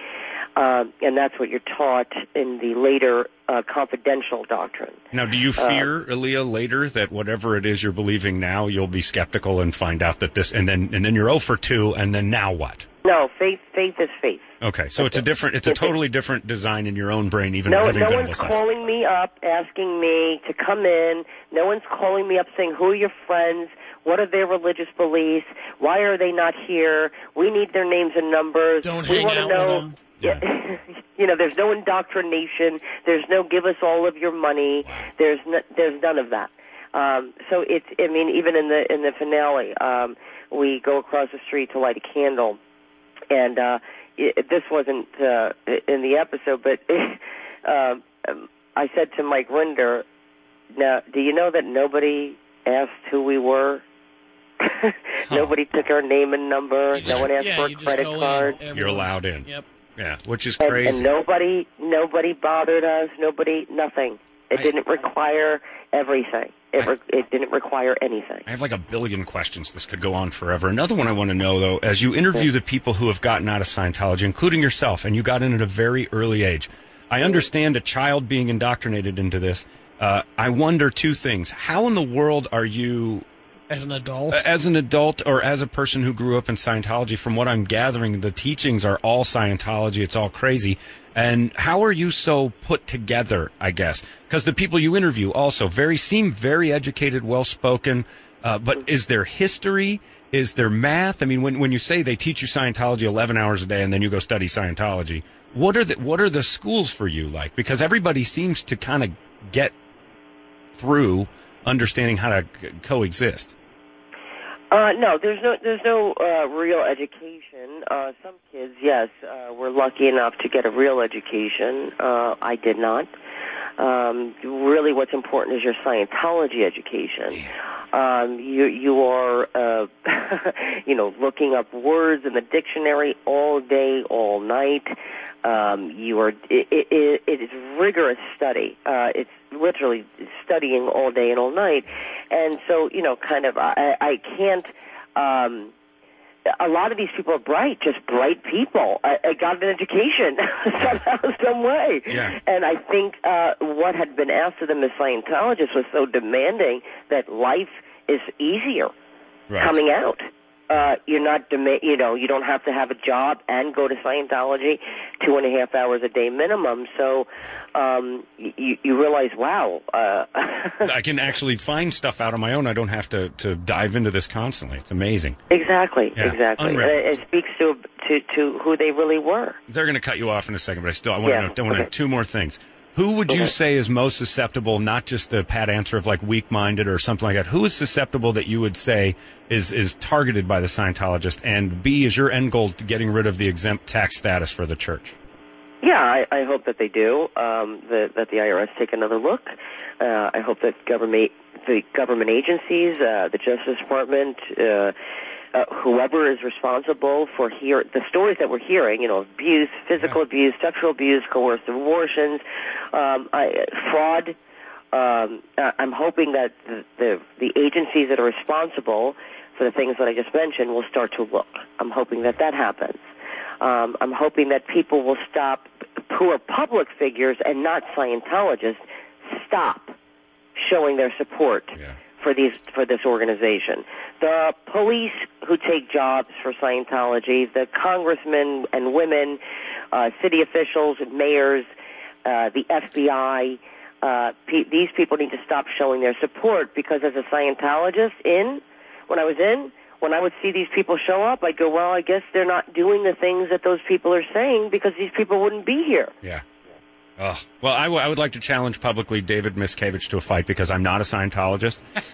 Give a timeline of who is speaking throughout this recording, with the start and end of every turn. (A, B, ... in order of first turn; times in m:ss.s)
0:00.6-0:05.0 A
0:05.1-0:12.9 B
0:05.6-0:05.9 A
0:13.0-0:14.4 A
0:14.6-0:18.6 B
0:15.0-0:15.9 A
0:17.6-0:42.6 A
0:28.8-0:30.0 C
0:43.3-0:50.0 A
0:50.7-0:53.8 A
0:54.6-0:58.6 A
0:55.3-0:55.6 B
0:57.0-0:57.3 B
0:57.4-0:59.6 C
0:58.7-1:01.1 B
1:00.6-1:08.4 A
1:08.4-1:23.2 B
1:23.7-1:24.4 C
1:24.3-1:49.7 B
1:50.7-1:53.5 B
1:54.7-2:03.1 A
2:03.8-2:25.7 A
2:26.6-2:38.9 A
2:32.1-2:32.4 B
2:39.5-2:39.7 B
2:39.6-2:50.9 A
2:50.8-2:55.4 B
2:55.5-2:59.6 A
2:56.2-2:57.0 B
2:59.7-3:15.2 B
3:01.2-3:01.9 A
3:03.3-3:03.5 A
3:15.8-3:24.9 A
3:25.5-3:34.3 A
3:34.9-3:43.0 A
3:43.6-3:49.9 A
3:50.6-3:59.4 A
3:59.9-4:01.7 A
4:02.2-4:16.1 A
4:17.2-4:21.8 B